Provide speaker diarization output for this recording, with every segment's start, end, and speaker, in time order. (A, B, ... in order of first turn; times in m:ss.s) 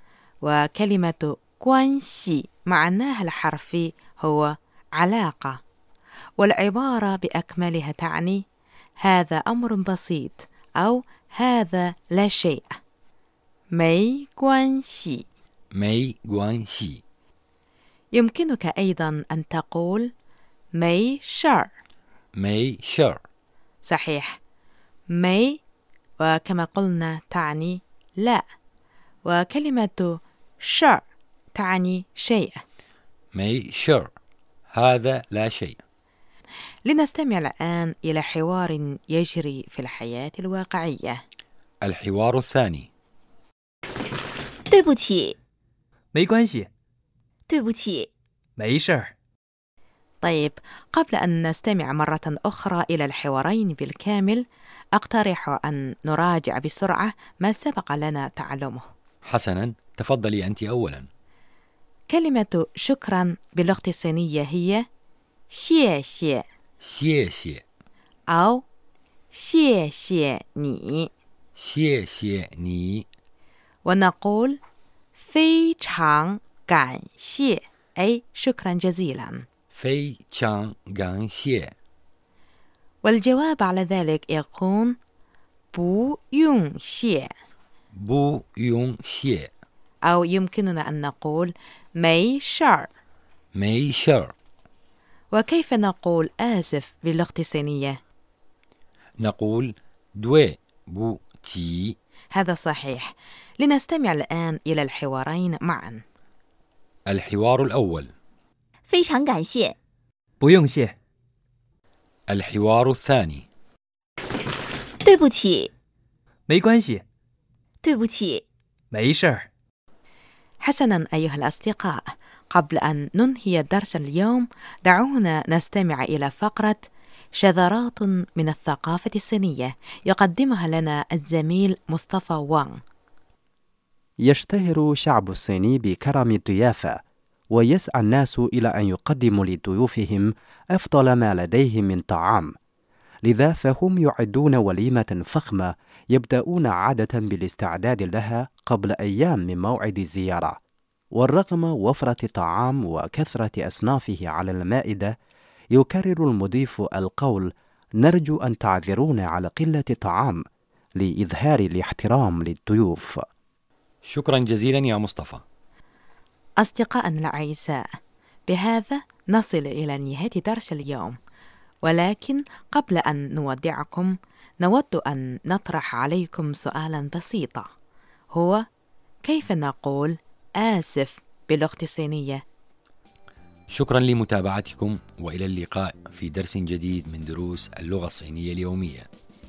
0:00.4-0:05.6 A
0:06.4-0:08.4 A
0:09.0-0:12.7 A
0:13.7-0:15.2 A
0:15.8-0:17.0 B
0:18.1-0:20.1 A
0:20.8-0:21.7 A
0:22.4-0:23.2 B
0:23.8-0:24.4 A
0:25.1-0:25.6 A
0:26.2-0:28.4 A
0:29.3-0:31.0 A
0:31.6-0:32.6 A
0:33.3-0:34.1 B
0:34.7-0:35.8 B
0:36.9-0:41.2 A
0:41.8-0:42.9 B
0:44.7-0:45.4 C
0:46.1-0:46.7 D
0:47.5-0:48.1 C
0:48.6-0:49.1 D
0:50.2-0:54.4 A
0:55.0-0:58.8 A
0:59.2-1:01.1 B
1:02.1-1:04.8 A
1:05.5-1:06.4 A
1:06.8-1:07.6 B
1:08.3-1:08.6 A
1:09.3-1:11.1 A
1:11.6-1:13.0 B
1:13.9-1:14.6 A
1:15.2-1:19.4 A
1:19.7-1:21.7 B
1:23.0-1:25.0 A
1:25.7-1:27.3 A
1:28.0-1:29.5 B
1:30.0-1:32.9 A
1:33.6-1:34.3 B
1:35.3-1:38.0 A
1:39.2-1:42.0 B
1:42.3-1:46.0 A
1:47.1-1:48.1 B
1:48.9-1:49.8 C
1:50.4-1:51.0 D
1:52.3-1:53.5 B
1:55.0-1:55.7 C
1:56.5-1:57.0 D
1:57.8-1:58.4 C
1:58.9-1:59.5 D
2:00.6-2:06.8 A
2:07.4-2:12.8 A
2:14.2-2:17.0 E
2:17.5-2:22.5 E
2:23.2-2:30.6 E
2:31.2-2:35.2 E
2:35.7-2:40.4 E
2:41.0-2:43.2 E
2:44.0-2:45.4 B
2:46.6-2:47.8 A
2:48.5-2:51.2 A
2:51.8-2:57.7 A
2:58.3-2:58.6 A
2:59.2-3:02.4 A
3:03.7-3:09.1 B